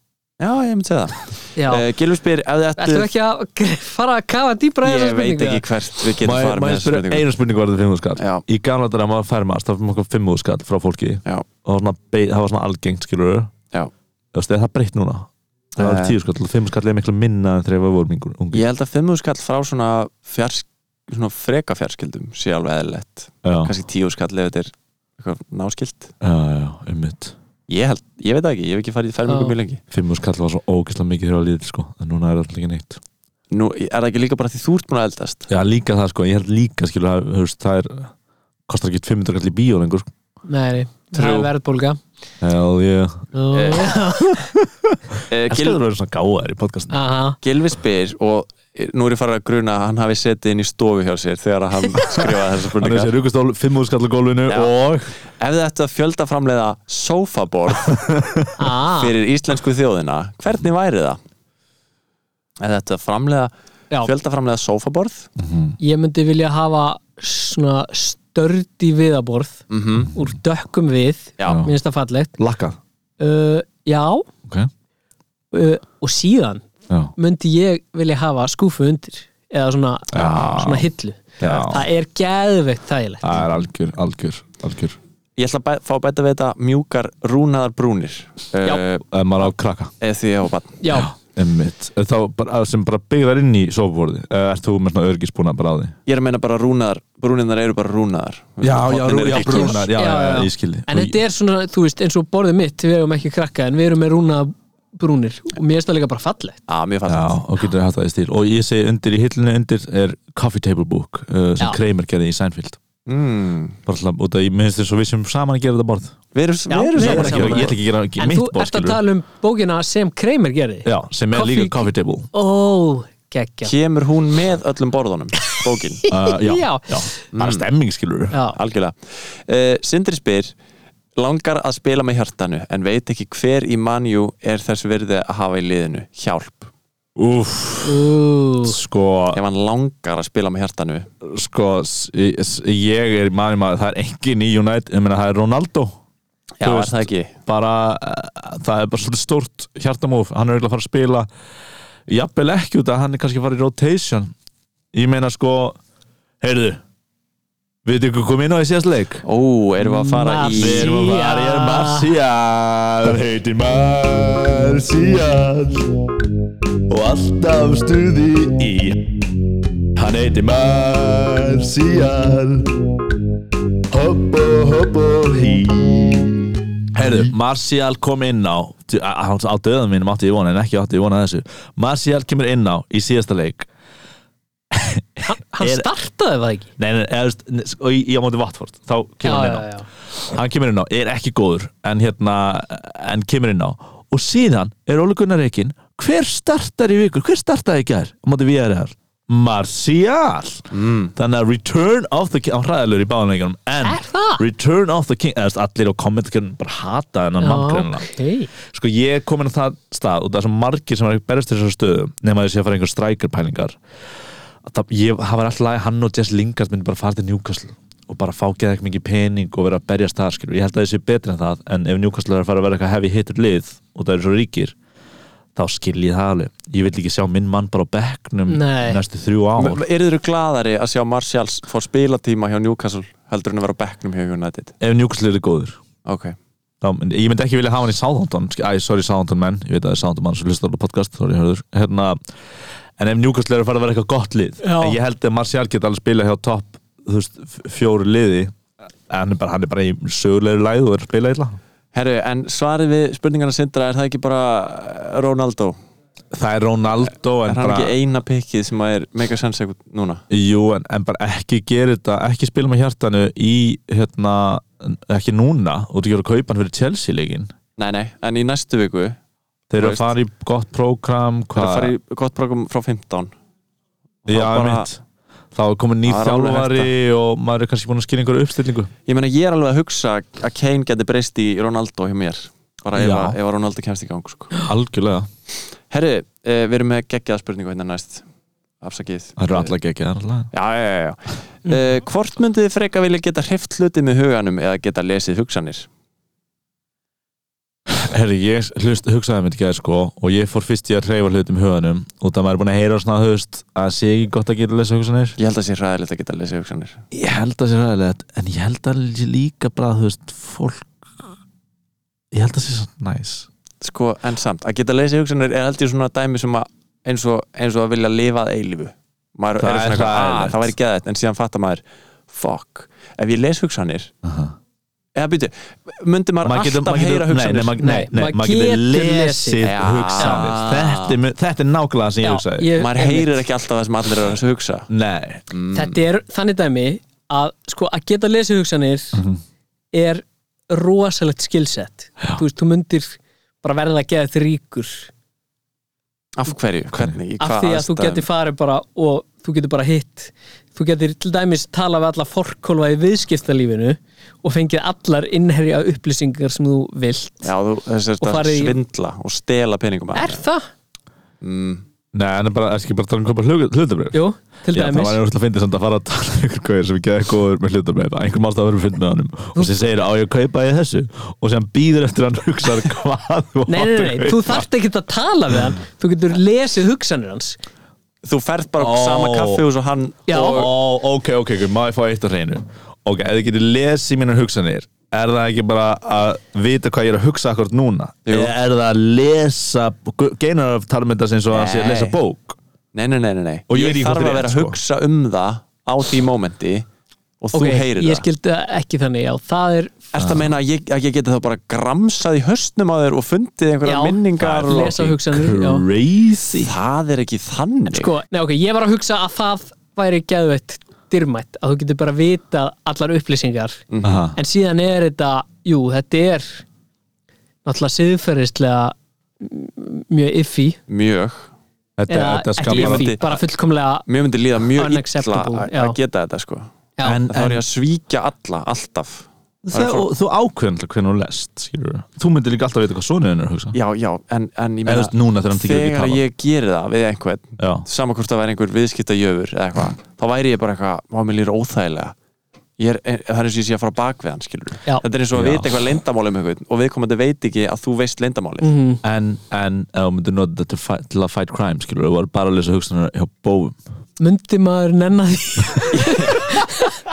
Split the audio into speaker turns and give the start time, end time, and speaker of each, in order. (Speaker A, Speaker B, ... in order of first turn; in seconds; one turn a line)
Speaker A: 0.4-3.1
Speaker B: 1.6-1.8
Speaker B: 2.8-5.6
Speaker A: 4.8-7.2
Speaker C: 6.2-13.5
Speaker A: 8.2-8.4
Speaker C: 14.3-18.6
Speaker A: 15.8-16.1
Speaker A: 18.5-26.1
Speaker C: 23.4-23.7
Speaker C: 26.2-27.3
Speaker A: 27.7-29.8
Speaker B: 29.3-29.5
Speaker C: 29.9-33.0
Speaker A: 33.5-35.5
Speaker C: 35.5-38.1
Speaker C: 38.7-40.1
Speaker B: 40.5-42.0
Speaker A: 41.1-41.5
Speaker C: 42.4-43.3
Speaker B: 43.3-44.5
Speaker A: 43.5-43.9
Speaker C: 44.1-47.0
Speaker A: 45.3-45.8
Speaker B: 46.9-47.4
Speaker A: 47.4-53.1
Speaker C: 52.2-55.1
Speaker A: 55.4-58.0
Speaker C: 57.9-58.5
Speaker B: 58.6-59.1
Speaker A: 59.0-61.2
Speaker A: 62.6-63.5
Speaker A: 64.0-65.3
Speaker C: 65.4-65.8
Speaker B: 65.8-69.6
Speaker A: 69.7-70.1
Speaker C: 70.0-70.3
Speaker B: 70.1-72.3
Speaker C: 71.4-71.7
Speaker C: 72.4-72.8
Speaker B: 73.2-74.2
Speaker B: 75.5-83.4
Speaker C: 80.1-80.9
Speaker A: 80.2-80.5
Speaker A: 81.4-81.7
Speaker C: 81.4-81.8
Speaker C: 83.2-85.0
Speaker A: 85.4-89.5
Speaker C: 89.1-89.9
Speaker A: 90.0-90.8
Speaker B: 90.8-91.1
Speaker C: 90.9-96.0
Speaker A: 96.1-99.8
Speaker C: 98.6-101.2
Speaker B: 99.3-106.6
Speaker A: 106.7-107.4
Speaker C: 107.0-112.8
Speaker A: 113.1-113.8
Speaker C: 113.8-116.2
Speaker A: 116.3-117.8
Speaker B: 116.7-123.7
Speaker C: 117.0-119.0
Speaker C: 120.8-122.3
Speaker A: 123.6-126.0
Speaker B: 126.0-126.9
Speaker C: 126.1-128.3
Speaker A: 127.3-127.7
Speaker B: 128.3-128.6
Speaker A: 128.5-130.5
Speaker A: 131.2-136.7
Speaker C: 137.2-138.1
Speaker B: 137.8-138.8
Speaker C: 138.6-139.4
Speaker A: 139.3-141.1
Speaker C: 141.2-146.0
Speaker A: 146.6-147.3
Speaker C: 146.6-151.3
Speaker C: 152.1-154.3
Speaker C: 154.9-155.8
Speaker C: 156.4-156.8
Speaker C: 157.8-159.2
Speaker A: 159.2-160.9
Speaker B: 159.9-162.1
Speaker C: 160.6-165.9
Speaker C: 166.9-169.2
Speaker C: 169.9-172.8
Speaker C: 173.9-183.7
Speaker C: 184.7-185.9
Speaker B: 185.2-186.7
Speaker C: 186.8-213.8
Speaker B: 189.2-189.8
Speaker A: 200.7-201.1
Speaker B: 203.8-204.4
Speaker B: 207.4-208.5
Speaker C: 214.6-224.7
Speaker C: 225.5-229.8
Speaker B: 228.5-229.0
Speaker A: 229.6-234.7
Speaker C: 234.8-235.8
Speaker A: 236.0-236.3
Speaker C: 236.8-242.2
Speaker C: 243.0-248.5
Speaker B: 244.6-245.0
Speaker C: 249.1-251.6
Speaker A: 251.9-255.8
Speaker C: 256.3-257.9
Speaker A: 257.4-260.2
Speaker C: 260.3-267.5
Speaker A: 267.8-269.2
Speaker C: 269.7-271.9
Speaker A: 269.8-270.1
Speaker A: 271.6-273.3
Speaker A: 274.2-274.9
Speaker C: 274.3-278.9
Speaker A: 276.0-276.9
Speaker A: 279.1-284.6
Speaker C: 282.9-283.4
Speaker C: 284.6-285.3
Speaker A: 285.9-288.2
Speaker A: 288.8-289.7
Speaker C: 289.4-290.5
Speaker A: 290.5-295.9
Speaker C: 297.9-305.4
Speaker A: 305.4-307.0
Speaker C: 307.1-311.3
Speaker C: 312.3-313.5
Speaker A: 313.8-324.1
Speaker C: 319.6-320.7
Speaker C: 324.2-324.5
Speaker A: 325.1-327.8
Speaker C: 326.4-332.7
Speaker B: 327.8-329.6
Speaker A: 329.6-331.2
Speaker B: 330.2-330.4
Speaker B: 332.2-333.4
Speaker A: 332.8-334.9
Speaker C: 334.9-335.4
Speaker A: 335.5-336.0
Speaker B: 335.7-339.2
Speaker C: 339.1-339.4
Speaker B: 339.9-345.1
Speaker A: 346.4-348.3
Speaker C: 346.9-347.2
Speaker B: 347.4-357.5
Speaker A: 357.4-360.4
Speaker B: 358.2-358.8
Speaker B: 360.1-360.7
Speaker A: 361.4-361.8
Speaker C: 362.1-364.2
Speaker B: 364.1-365.2
Speaker C: 364.7-374.6
Speaker B: 373.7-377.6
Speaker A: 378.2-380.7
Speaker C: 378.8-379.6
Speaker B: 380.3-380.6
Speaker C: 380.4-392.6
Speaker A: 388.3-388.5
Speaker A: 391.5-392.2
Speaker A: 392.9-396.9
Speaker C: 393.7-394.8
Speaker A: 397.4-398.2
Speaker B: 397.5-400.0
Speaker A: 400.1-405.1
Speaker C: 400.1-400.5
Speaker B: 403.8-405.8
Speaker C: 404.4-406.7
Speaker A: 406.6-408.1
Speaker B: 407.9-413.8
Speaker A: 413.9-414.2
Speaker C: 414.0-414.4
Speaker B: 414.3-416.6
Speaker B: 417.6-420.8
Speaker A: 420.9-421.5
Speaker C: 422.0-423.1
Speaker B: 422.1-424.1
Speaker A: 422.6-423.4
Speaker A: 424.1-426.7
Speaker B: 424.8-425.9
Speaker C: 427.0-427.6
Speaker A: 427.3-430.1
Speaker C: 429.6-433.8
Speaker A: 433.7-442.1
Speaker C: 434.9-436.2
Speaker C: 437.6-437.9
Speaker A: 442.8-448.7
Speaker C: 445.3-445.7
Speaker B: 448.6-449.0
Speaker C: 449.0-453.8
Speaker B: 454.2-456.8
Speaker A: 455.9-456.4